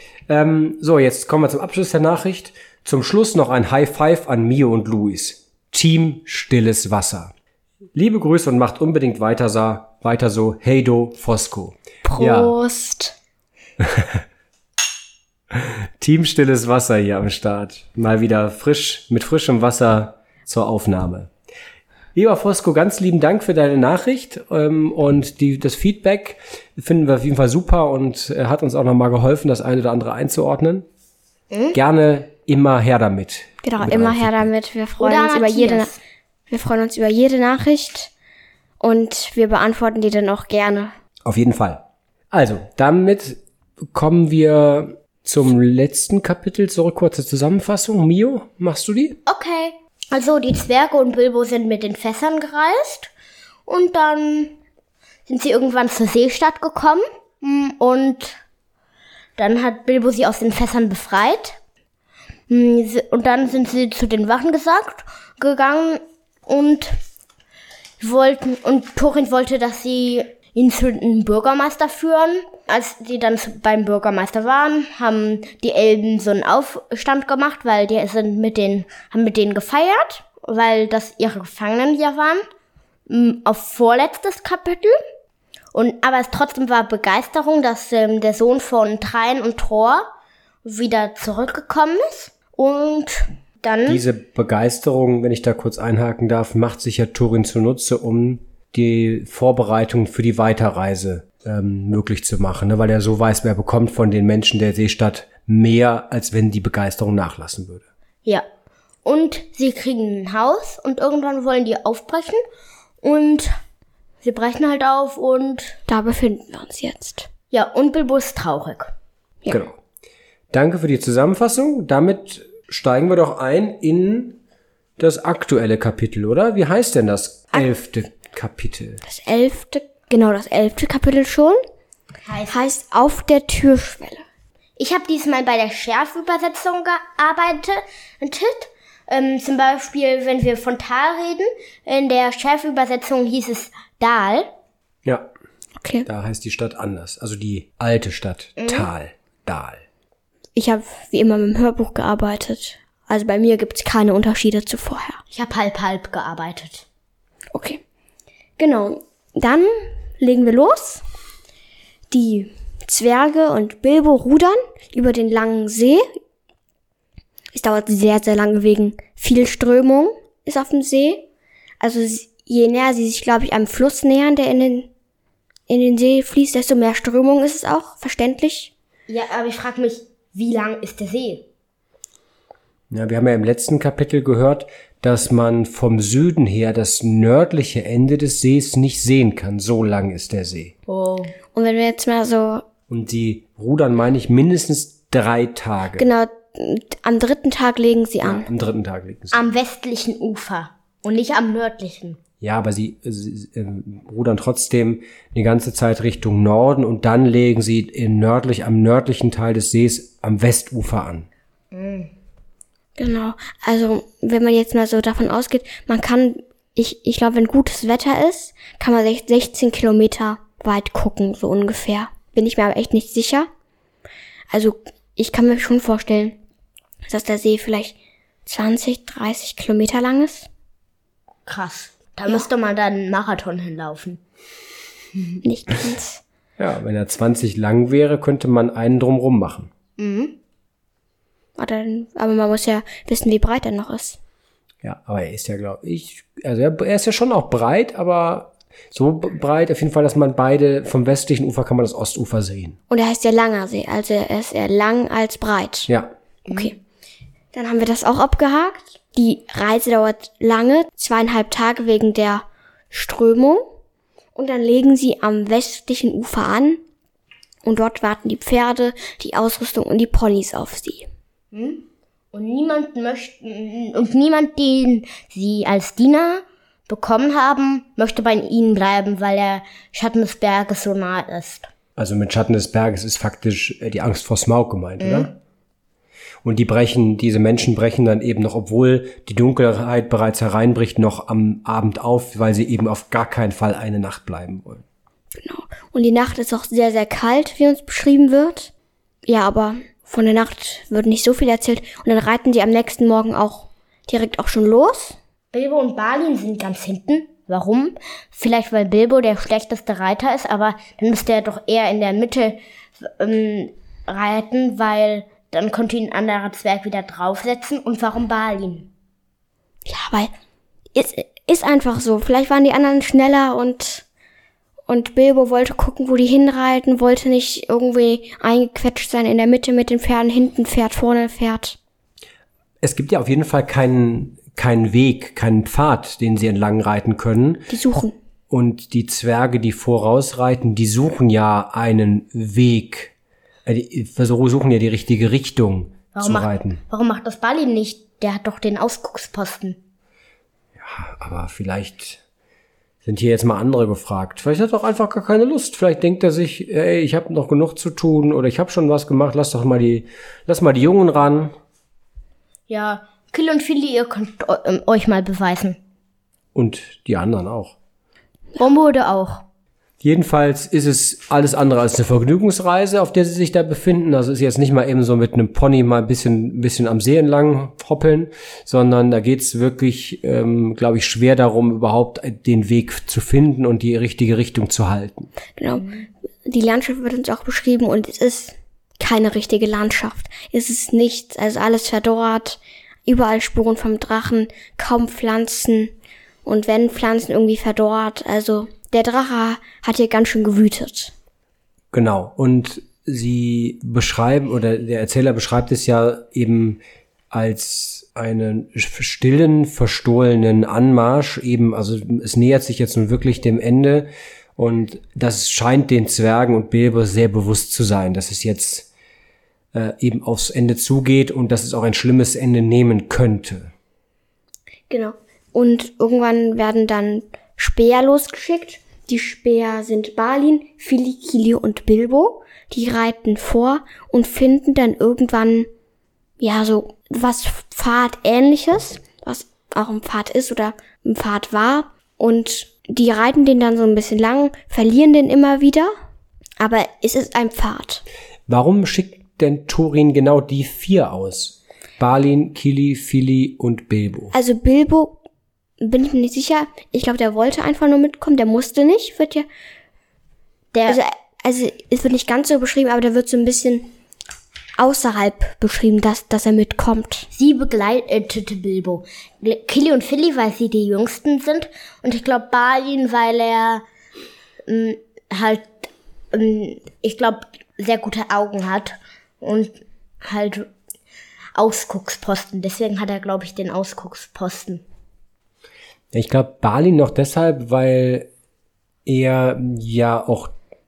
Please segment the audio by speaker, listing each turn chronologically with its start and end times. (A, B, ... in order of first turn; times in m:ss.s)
0:00.3-0:07.3 A
0:08.0-0:12.5 A
0:12.0-0:13.2 B
0:13.8-0:14.2 A
0:15.5-0:21.3 A
0:22.2-0:30.9 A
0:31.5-0:31.8 C
0:31.7-0:34.5 A
0:33.6-0:35.9 B
0:35.0-0:36.0 C
0:36.5-0:38.1 B
0:38.8-0:40.9 B
0:41.2-0:49.2 A
0:49.3-0:53.1 C
0:53.7-0:54.6 C
0:55.3-0:58.4 C
0:59.4-1:01.6 C
1:02.5-1:07.0 C
1:08.0-1:22.4 C
1:23.1-1:25.0 C
1:25.7-1:30.1 C
1:30.6-1:34.0 C
1:33.9-1:47.8 A
1:49.0-1:52.4 C
1:53.0-1:53.5 C
1:54.2-1:55.8 C
1:55.9-1:57.3 B
1:57.5-1:58.9 C
1:59.5-1:59.8 A
2:00.5-2:04.4 A
2:05.0-2:09.0 A
2:09.0-2:11.6 B
2:12.3-2:12.6 C
2:12.5-2:14.2 B
2:14.8-2:24.5 C
2:25.8-2:26.1 B
2:26.1-2:29.8 A
2:28.6-2:28.9 C
2:30.6-2:35.2 B
2:35.3-2:36.9 C
2:37.5-2:37.8 B
2:38.6-2:41.0 B
2:42.1-2:46.0 B
2:47.5-2:51.2 B
2:51.8-2:54.9 B
2:55.7-2:58.7 B
2:59.1-3:01.4 C
3:02.9-3:10.7 A
3:10.9-3:11.3 C
3:11.5-3:12.7 B
3:12.9-3:16.1 A
3:16.0-3:18.5 B
3:18.2-3:19.5 A
3:19.3-3:22.2 C
3:22.4-3:31.3 A
3:31.7-3:32.1 C
3:33.0-3:43.5 B
3:44.5-3:46.4 B
3:47.1-3:50.5 B
3:51.5-3:54.2 C
3:55.4-3:56.2 B
3:56.6-3:59.7 A
4:00.0-4:00.4 C
4:01.6-4:04.2 B
4:04.8-4:12.8 A
4:12.9-4:15.9 B
4:16.5-4:16.7 C
4:17.5-4:23.7 B
4:24.4-4:26.8 B
4:27.6-4:31.1 B
4:31.5-4:41.7 C
4:42.0-4:45.3 A
4:45.0-4:45.3 C
4:46.4-4:54.8 A
4:55.4-4:58.7 B
4:59.3-5:05.2 B
5:05.5-5:18.9 C
5:19.9-5:20.3 B
5:20.9-5:24.0 B
5:24.9-5:31.8 B
5:32.8-5:37.6 A
5:37.7-5:38.2 B
5:38.5-5:43.1 A
5:43.7-5:46.8 A
5:46.1-5:49.8 C
5:50.8-5:52.2 A
5:53.0-6:01.5 A
6:02.7-6:05.8 C
6:06.6-6:07.8 A
6:08.6-6:09.4 C
6:10.0-6:25.3 A
6:25.6-6:25.9 B
6:25.8-6:26.1 C
6:26.5-6:35.9 B
6:36.4-6:41.1 B
6:41.9-6:46.8 A
6:47.3-6:58.9 A
6:59.7-7:03.7 A
7:04.9-7:15.7 B
7:16.4-7:25.9 B
7:26.6-7:28.0 B
7:28.5-7:34.4 A
7:34.3-7:35.2 B
7:35.8-7:39.5 B
7:40.7-7:41.0 C
7:40.9-7:43.9 B
7:44.8-7:47.3 B
7:47.3-7:53.8 C
7:54.7-8:00.7 C
8:01.6-8:04.8 C
8:06.1-8:08.3 A
8:09.1-8:10.5 A